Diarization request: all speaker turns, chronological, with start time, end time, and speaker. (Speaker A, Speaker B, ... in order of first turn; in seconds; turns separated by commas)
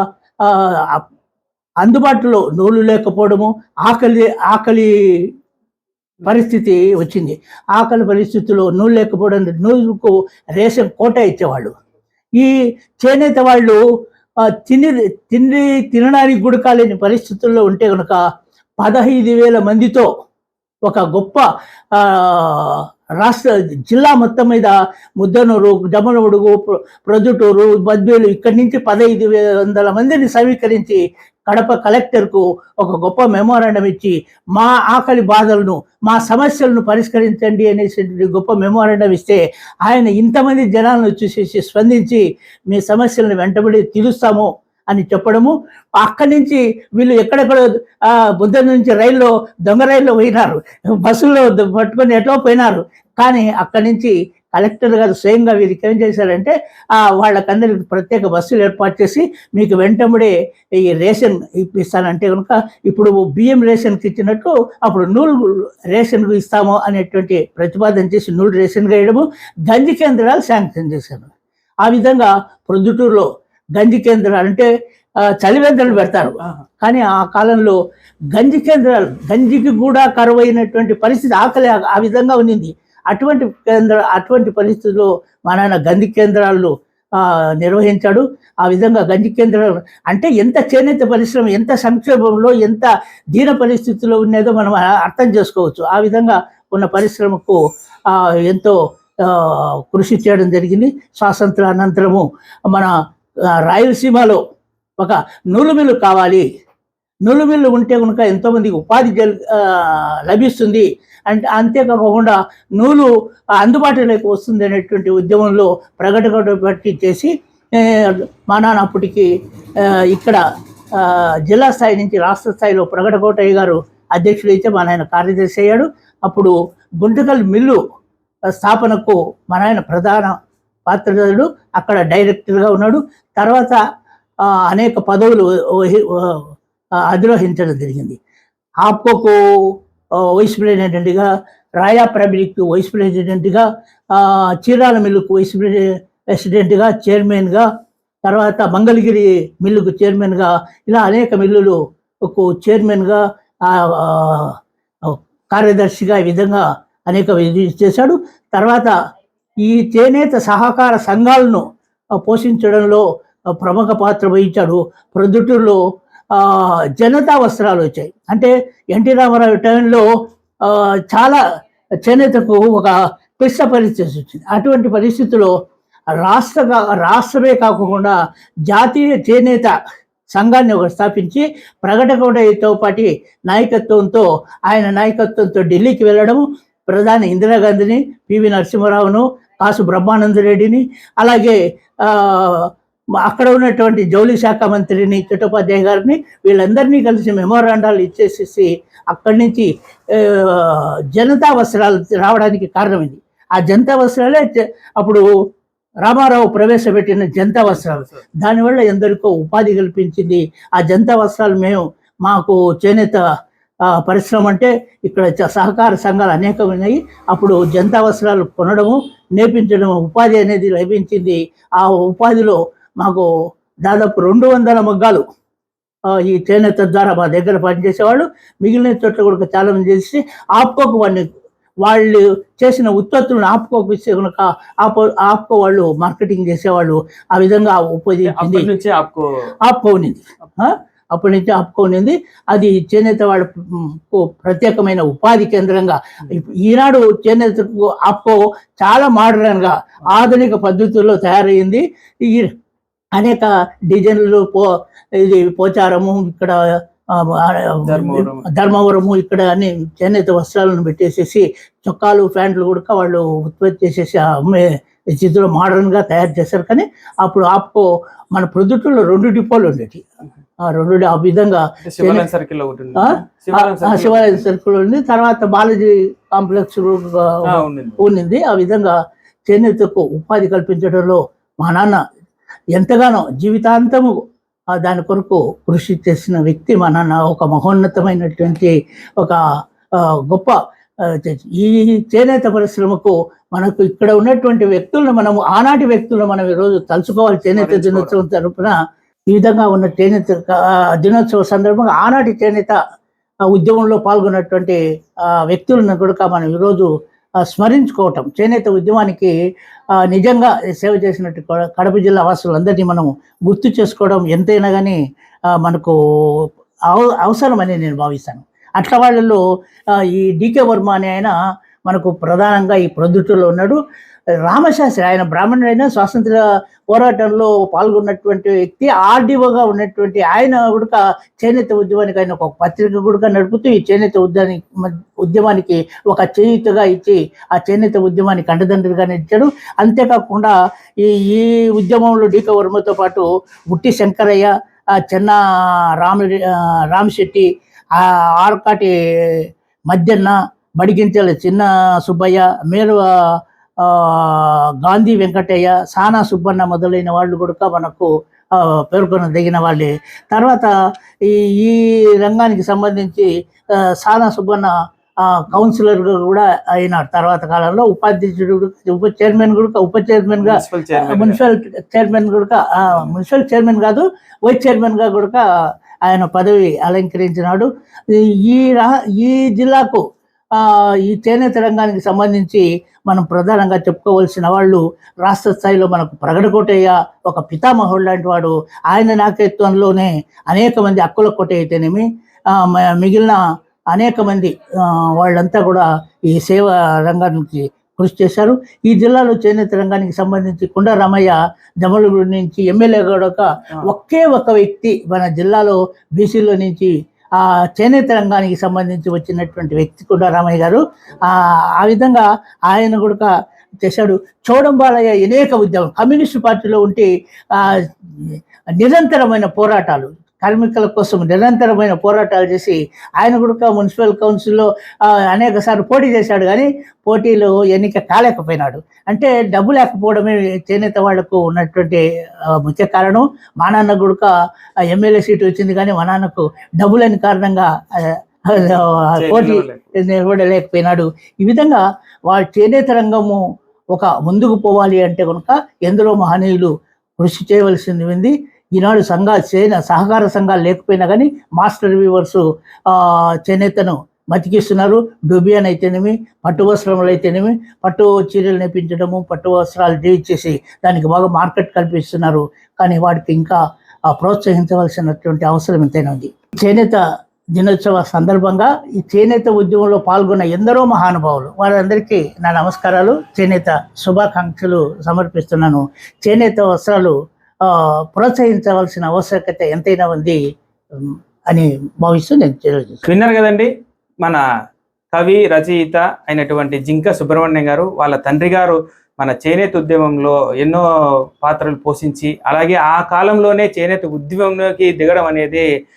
Speaker A: 0.5-1.0, Speaker A: 1.8-4.9, Speaker A: 6.2-11.7, Speaker A: 12.4-13.8, Speaker A: 14.5-18.2, Speaker A: 18.8-20.1, Speaker A: 20.9-21.4, Speaker A: 22.0-71.3, Speaker A: 71.8-73.3, Speaker A: 73.8-74.7, Speaker A: 75.4-77.8, Speaker B: 76.0-76.6, Speaker A: 78.3-97.6, Speaker A: 98.1-102.9, Speaker A: 103.7-104.4, Speaker A: 105.0-106.5, Speaker A: 107.3-119.3, Speaker A: 120.0-120.4, Speaker A: 121.0-127.8, Speaker A: 128.6-130.4, Speaker A: 130.9-133.8, Speaker A: 134.5-136.4, Speaker A: 137.1-138.2, Speaker A: 138.8-139.4, Speaker A: 140.3-141.3, Speaker A: 141.8-147.7, Speaker A: 148.2-158.9, Speaker A: 159.6-161.6, Speaker A: 162.2-163.0, Speaker A: 163.6-165.8, Speaker A: 166.3-170.1, Speaker A: 170.7-171.4, Speaker A: 172.1-175.5, Speaker A: 176.2-178.1, Speaker A: 178.7-179.7, Speaker A: 180.3-192.7, Speaker A: 193.2-205.2, Speaker A: 206.1-213.2, Speaker B: 207.7-208.2, Speaker A: 214.0-223.3, Speaker A: 223.8-225.2, Speaker A: 226.1-231.3, Speaker A: 231.8-238.7, Speaker B: 238.3-239.3, Speaker A: 239.7-252.5, Speaker A: 253.2-256.6, Speaker A: 257.2-270.1, Speaker B: 257.9-258.5, Speaker A: 270.7-272.3, Speaker B: 271.9-274.4, Speaker A: 272.9-278.9, Speaker B: 277.5-278.0, Speaker A: 279.5-282.0, Speaker A: 282.8-284.1, Speaker A: 284.8-289.4, Speaker A: 290.0-298.8, Speaker B: 297.5-298.2, Speaker A: 299.3-302.8, Speaker A: 303.5-304.8, Speaker A: 305.3-306.9, Speaker A: 307.4-309.3, Speaker A: 310.0-315.0, Speaker A: 315.6-319.4, Speaker A: 320.0-321.3, Speaker A: 321.9-323.8, Speaker A: 324.4-326.4, Speaker A: 326.9-345.4, Speaker A: 346.0-348.9, Speaker A: 349.9-353.1, Speaker A: 353.8-360.7, Speaker A: 361.3-363.3, Speaker A: 364.0-364.7, Speaker A: 365.2-375.4, Speaker B: 370.4-371.4, Speaker A: 376.1-380.0, Speaker A: 380.6-393.4, Speaker A: 393.9-413.3, Speaker A: 413.8-434.3, Speaker A: 434.9-443.4, Speaker B: 439.2-439.9, Speaker A: 443.9-467.0, Speaker A: 467.6-480.4, Speaker A: 481.1-483.0, Speaker B: 483.1-483.7, Speaker B: 485.1-490.8, Speaker B: 491.4-495.6